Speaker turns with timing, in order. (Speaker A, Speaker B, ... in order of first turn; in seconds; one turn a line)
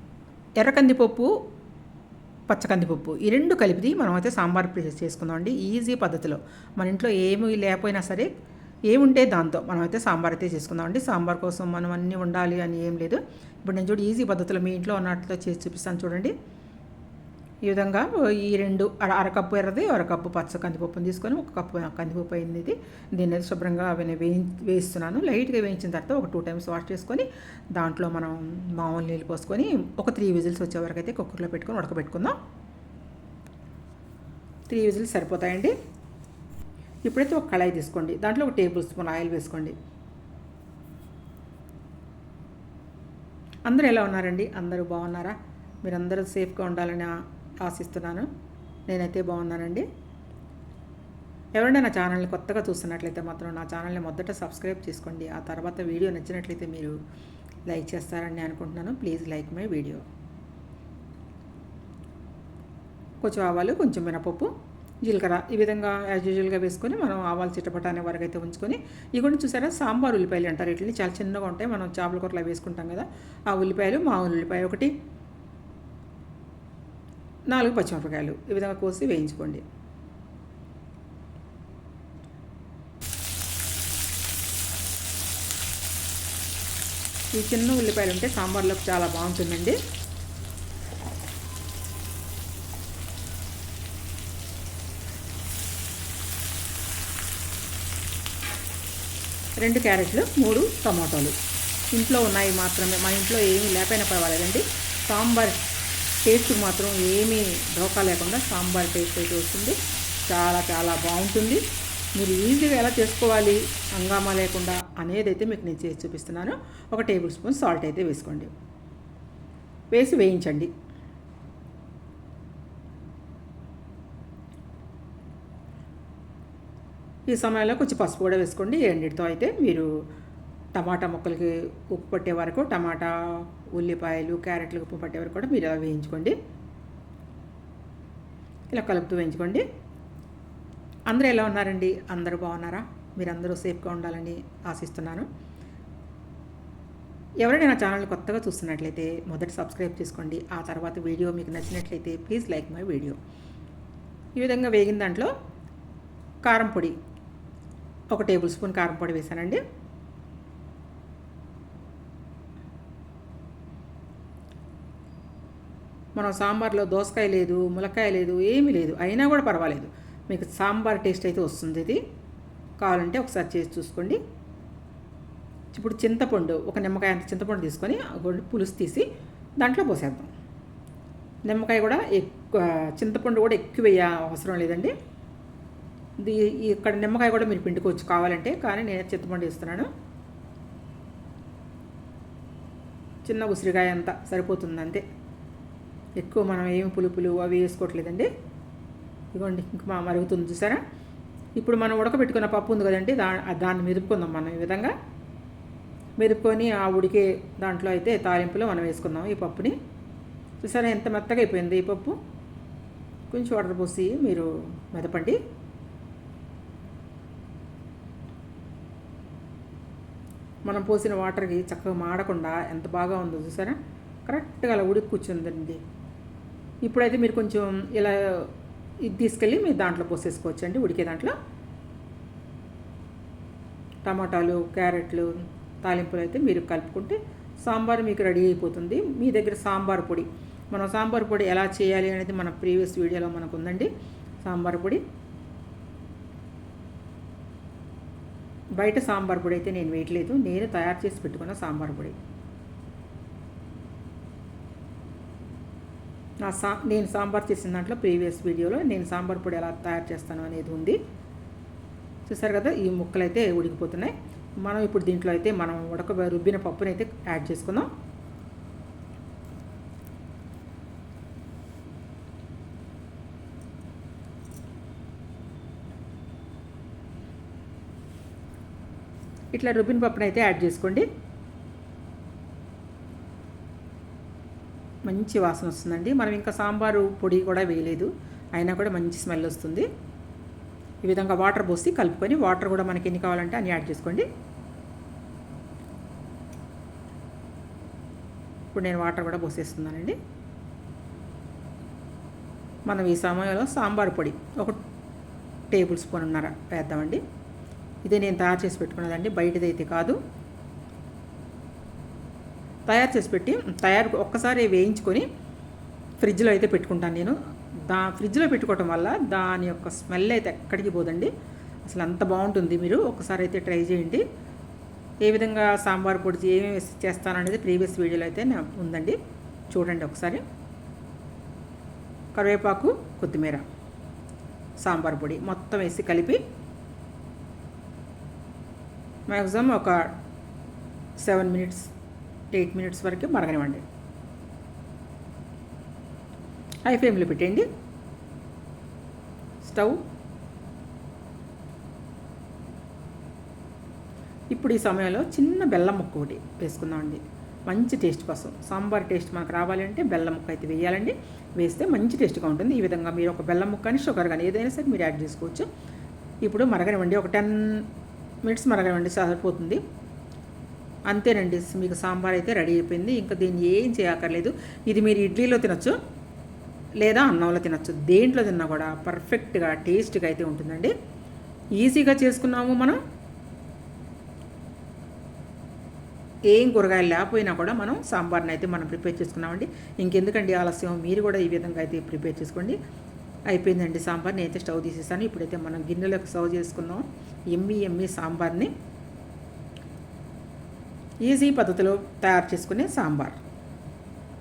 Speaker A: 0.6-1.4
Speaker A: 2.5-8.3
Speaker A: 8.9-16.3
Speaker A: 17.6-32.4
Speaker A: 34.7-35.7
Speaker A: 37.0-39.8
Speaker A: 43.6-47.1
Speaker A: 47.6-48.3
Speaker A: 48.9-49.9
Speaker A: 51.6-57.0
Speaker A: 57.6-60.0
Speaker A: 63.2-64.5
Speaker A: 65.0-74.9
Speaker A: 77.5-79.6
Speaker A: 87.3-89.8
Speaker A: 99.6-101.3
Speaker A: 101.9-105.6
Speaker A: 106.2-111.6
Speaker A: 112.2-118.5
Speaker A: 119.9-120.7
Speaker A: 127.3-129.9
Speaker A: 130.7-136.3
Speaker A: 138.7-139.6
Speaker A: 141.1-145.3
Speaker A: 147.4-153.2
Speaker A: 154.3-155.3
Speaker A: 156.4-157.0
Speaker A: 158.1-159.6
Speaker A: 166.2-172.0
Speaker A: 172.8-174.2
Speaker A: 175.7-179.1
Speaker A: 179.6-180.3
Speaker A: 181.5-184.9
Speaker A: 186.2-189.9
Speaker A: 193.2-195.0
Speaker A: 196.2-198.3
Speaker A: 199.3-200.8
Speaker A: 201.6-204.9
Speaker A: 206.2-209.8
Speaker A: 210.6-212.2
Speaker A: 213.3-215.4
Speaker A: 220.7-225.8
Speaker A: 226.8-228.5
Speaker A: 229.0-231.3
Speaker A: 234.0-243.9
Speaker A: 244.4-245.0
Speaker A: 248.8-252.2
Speaker A: 256.4-261.0
Speaker A: 262.3-267.9
Speaker A: 279.5-281.1
Speaker A: 285.1-289.9
Speaker A: 291.0-294.3
Speaker A: 298.7-300.2
Speaker A: 302.9-304.8
Speaker A: 305.7-307.2
Speaker A: 308.0-310.2
Speaker A: 312.9-315.3
Speaker A: 316.2-321.3
Speaker A: 321.9-324.2
Speaker A: 325.2-329.2
Speaker A: 329.7-330.4
Speaker A: 332.4-333.6
Speaker A: 334.8-336.4
Speaker A: 339.3-340.1
Speaker A: 341.2-341.9
Speaker A: 342.5-343.8
Speaker A: 346.9-347.7
Speaker A: 349.6-350.0
Speaker A: 354.5-365.7
Speaker A: 366.4-367.9
Speaker A: 368.4-369.8
Speaker A: 371.1-376.0
Speaker A: 377.0-380.9
Speaker A: 381.8-383.0
Speaker A: 386.5-392.8
Speaker A: 393.5-398.7
Speaker A: 401.2-403.4